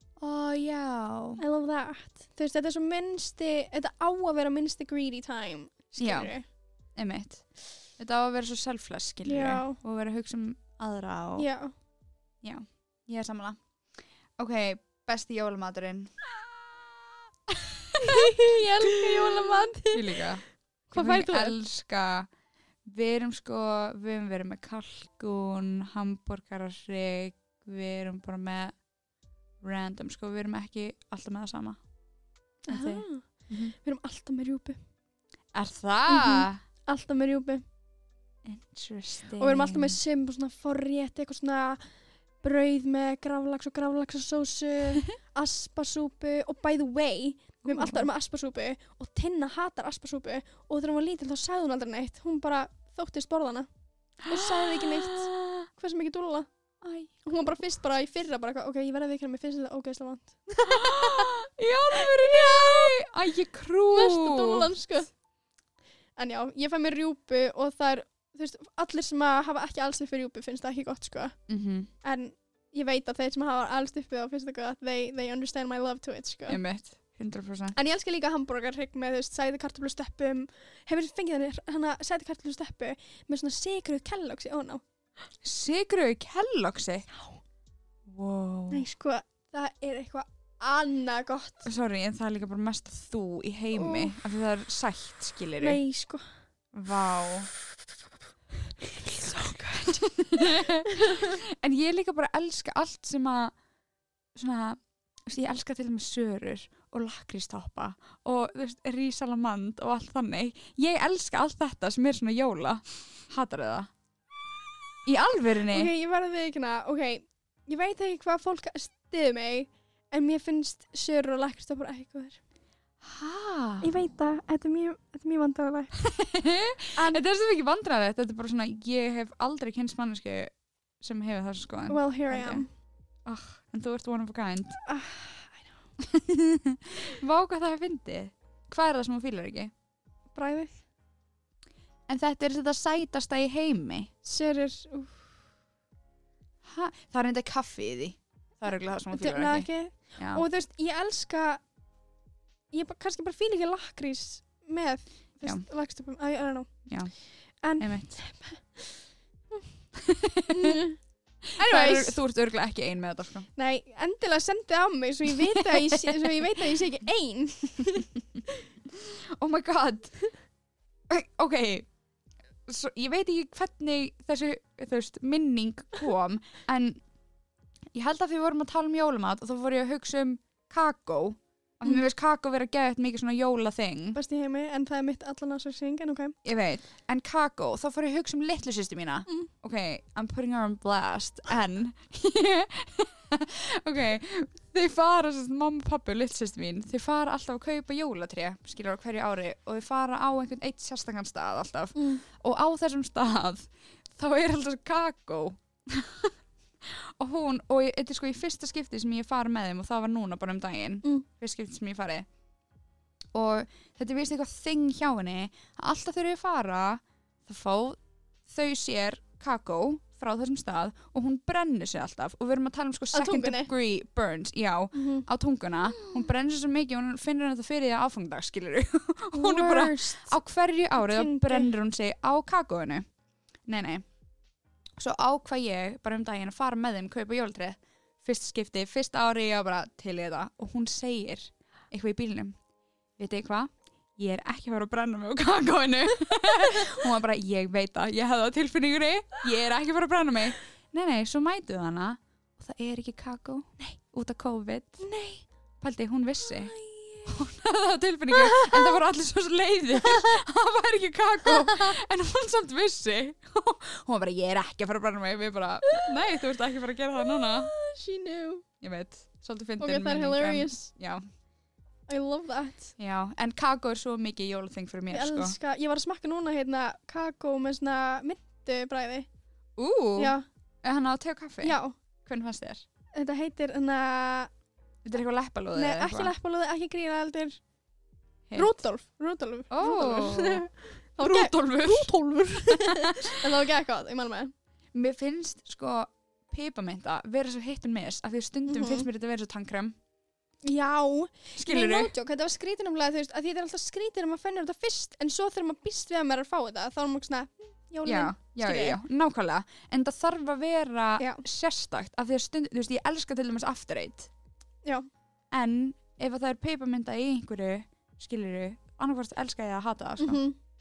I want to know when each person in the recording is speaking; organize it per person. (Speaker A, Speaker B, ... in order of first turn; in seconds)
Speaker A: 0.2-1.4, 6.0-6.3, 7.0-7.4, 8.0-11.5, 12.4-13.6, 14.4-16.9, 17.5-18.4, 19.0-22.3, 22.8-28.7, 29.6-31.8, 32.7-33.7, 35.5-36.6, 38.4-40.0, 47.6-48.1, 54.2-55.7, 56.8-57.1, 60.6-64.7, 71.5-71.9, 76.5-77.8, 85.4-87.1, 88.1-88.8, 91.6-95.8, 96.7-97.5, 99.4-103.5, 104.3-113.9, 115.0-115.9, 123.0-123.9, 126.0-132.6, 133.2-134.8, 136.0-139.7, 142.1-144.1, 146.6-150.4, 156.9-157.1, 157.8-158.2, 159.9-160.8, 161.6-163.5, 165.5-166.2, 168.9-170.1, 171.1-171.9, 172.7-177.0, 177.9-184.2, 186.4-212.3, 213.3-233.0, 233.7-234.0, 235.0-242.6, 243.2-255.0, 255.8-256.7, 257.2-267.7, 268.8-271.2, 273.0-275.6, 279.8-282.8, 285.0-286.3, 288.5-288.8, 289.7-290.7, 291.2-292.1, 292.7-293.4, 294.9-299.9, 301.6-302.1, 308.0-314.3, 315.5-320.4
Speaker B: 1.4-6.4, 9.2-9.8, 11.4-11.7, 18.0-20.2, 20.9-21.6, 32.6-34.8, 36.1-37.6, 39.4-41.8, 42.4-53.7, 54.3-56.5, 57.2-61.3, 61.9-63.0, 63.9-65.1, 66.2-71.3, 72.0-76.6, 77.7-84.8, 88.7-91.7, 93.7-94.1, 95.6-96.2, 99.0-101.3, 115.7-122.4, 123.8-125.9, 126.9-127.2, 131.9-132.7, 134.8-135.8, 140.3-140.8, 144.2-145.3, 149.1-151.6, 152.7-156.7, 157.6-158.9, 160.5-161.0, 161.6-162.2, 163.6-168.1, 184.1-186.3, 201.9-202.2, 223.1-223.7, 224.9-225.3, 229.3-230.4, 231.0-231.7, 255.0-255.4, 256.6-257.4, 258.3-258.9, 260.0-260.3, 267.2-268.6, 269.8-270.9, 272.1-272.9, 275.1-279.3, 280.2-280.4, 281.6-281.9, 283.1-284.5, 285.7-287.6, 288.5-294.5, 298.7-299.1, 300.6-309.0, 311.2-311.4, 320.2-320.6